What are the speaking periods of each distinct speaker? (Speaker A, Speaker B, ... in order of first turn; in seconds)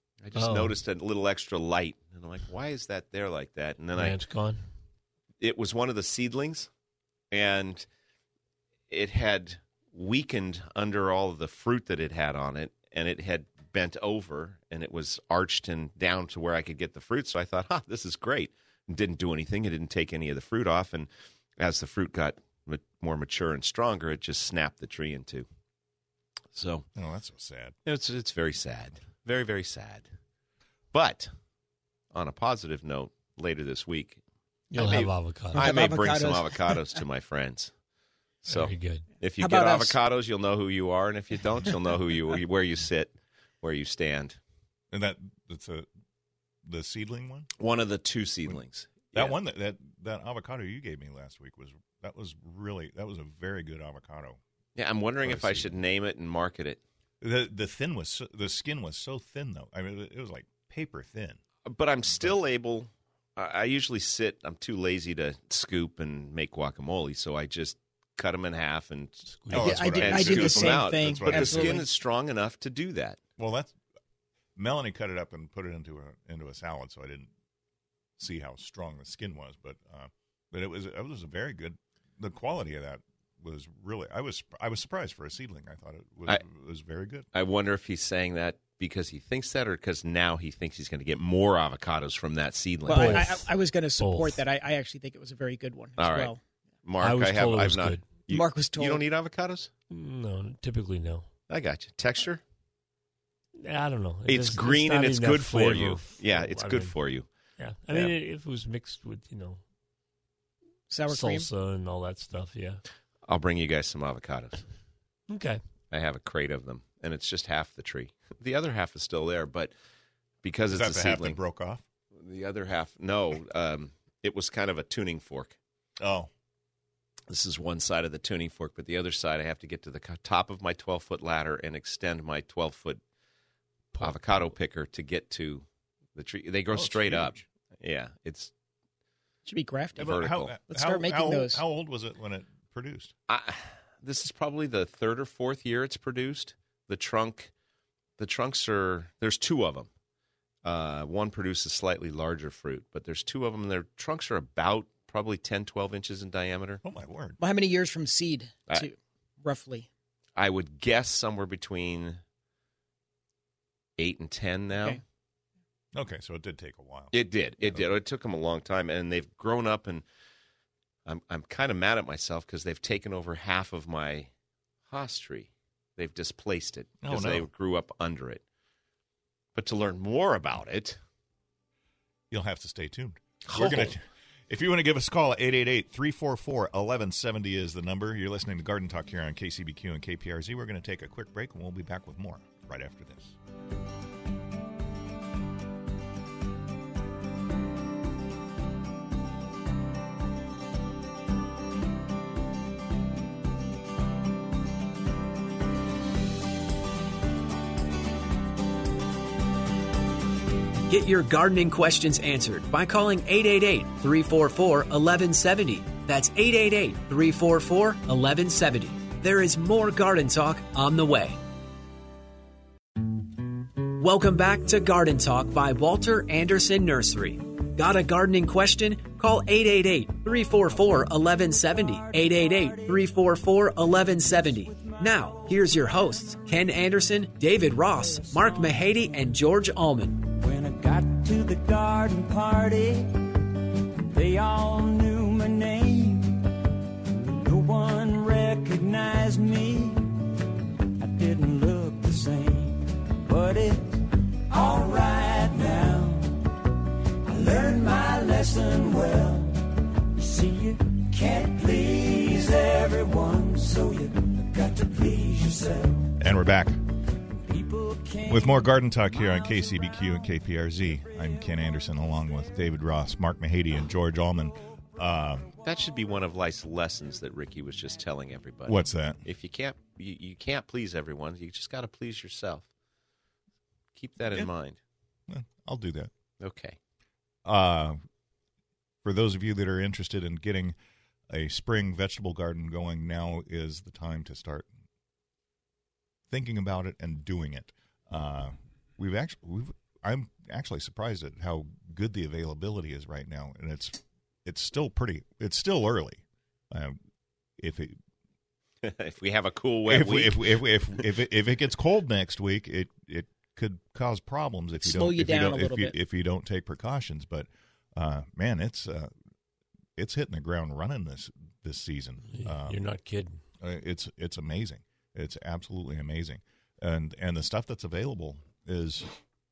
Speaker A: 0.2-4.2, 5.4-6.7, 7.3-7.8, 8.9-25.4, 26.5-26.9, 27.8-30.1, 30.9-31.3, 32.1-34.2, 34.7-37.7, 38.5-44.4, 47.6-49.3, 54.8-56.8, 61.6-73.2, 87.3-93.3, 96.0-96.3, 96.8-99.7, 101.5-102.4, 104.3-107.3, 113.2-114.6, 115.9-119.7, 120.4-121.4, 122.2-125.6, 127.3-133.0, 134.0-138.5, 140.0-140.5, 143.3-147.5, 148.2-149.9, 150.6-156.8, 160.3-162.2, 164.0-165.0, 167.1-170.0, 171.0-174.3, 174.9-178.4, 179.5-181.0, 183.4-183.9, 275.6-282.7, 283.9-284.8, 286.4-286.8, 308.8-311.0
Speaker B: 0.3-0.8, 3.9-4.6, 34.7-35.7, 38.5-39.1, 69.3-69.8, 92.9-93.5, 94.0-94.4, 97.0-98.0, 99.9-101.3, 103.6-106.9, 107.6-109.6, 111.1-112.8, 115.3-115.6, 322.3-323.4
Speaker C: 26.9-27.8, 44.9-45.9, 46.6-47.5, 49.1-54.4, 55.2-55.8, 57.2-61.4, 69.5-71.8, 73.4-73.7, 74.5-77.3, 78.2-87.3, 120.7-121.8, 126.0-126.3, 136.7-137.4, 140.0-143.1, 156.8-157.4, 165.9-167.9, 177.0-177.5, 182.3-193.3, 266.1-266.8, 268.2-275.5, 278.6-279.2, 285.3-286.1, 287.4-288.0, 289.0-290.8, 291.3-294.7, 296.3-307.0, 307.6-308.0, 309.8-319.1, 320.0-322.8, 323.6-329.1
Speaker D: 35.5-36.8, 39.4-40.0, 69.5-71.8, 92.9-96.4, 98.3-99.0, 110.9-111.5, 139.4-141.6, 157.4-159.9, 314.8-315.9
Speaker E: 210.9-221.4, 223.8-240.4
Speaker F: 240.4-243.4, 244.1-246.5, 247.2-250.2, 251.0-256.6, 257.2-266.1, 267.5-268.2